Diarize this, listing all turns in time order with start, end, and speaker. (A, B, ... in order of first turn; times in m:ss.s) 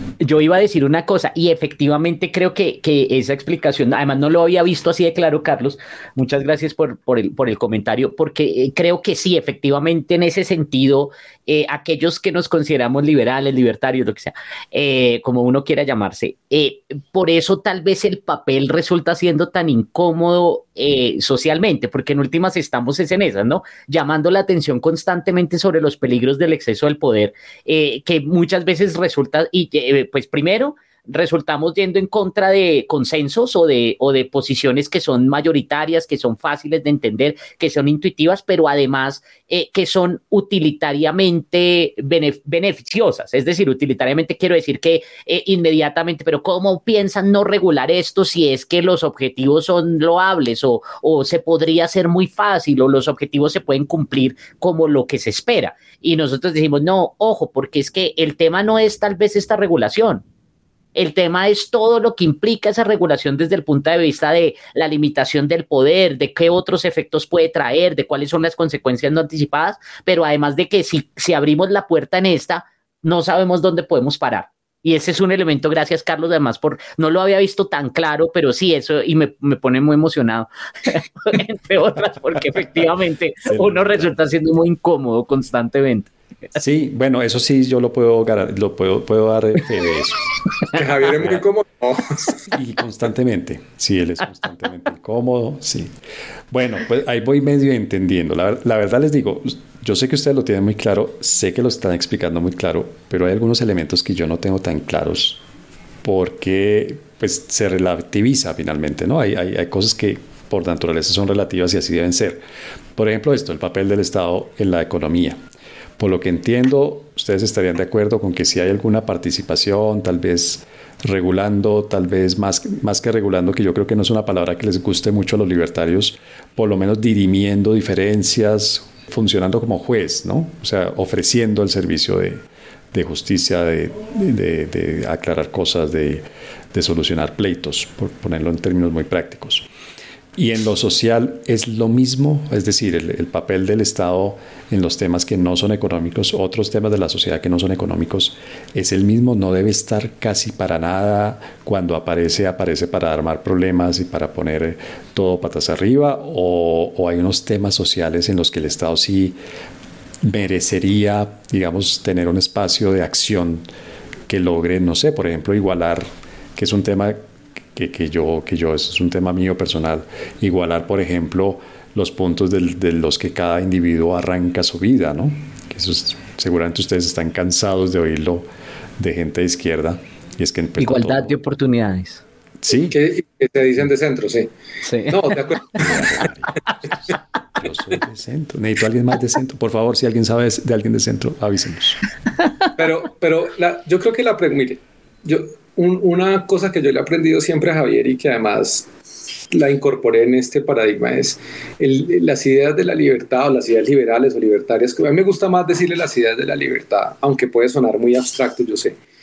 0:00.2-1:00.2 A
1:00.9-1:26.1 A
1:23.5-1:24.1 B
1:26.6-1:30.2 B
1:30.7-1:32.4 C
1:31.2-1:31.4 B
1:32.5-1:35.9 B
1:36.5-1:45.4 B
1:46.0-1:52.4 B
1:53.0-1:55.4 B
1:56.0-2:12.4 B
2:12.9-2:19.7 B
2:20.4-2:39.4 B
2:40.2-2:43.6 B
2:44.3-2:47.2 B
2:47.7-2:58.4 B
2:59.0-3:01.3 B
3:00.8-3:02.2 A
3:02.6-3:03.0 B
3:02.9-3:04.5 C
3:04.8-3:05.2 A
3:05.1-3:05.9 C
3:05.8-3:12.0 B
3:12.8-3:18.9 C
3:19.5-3:29.0 C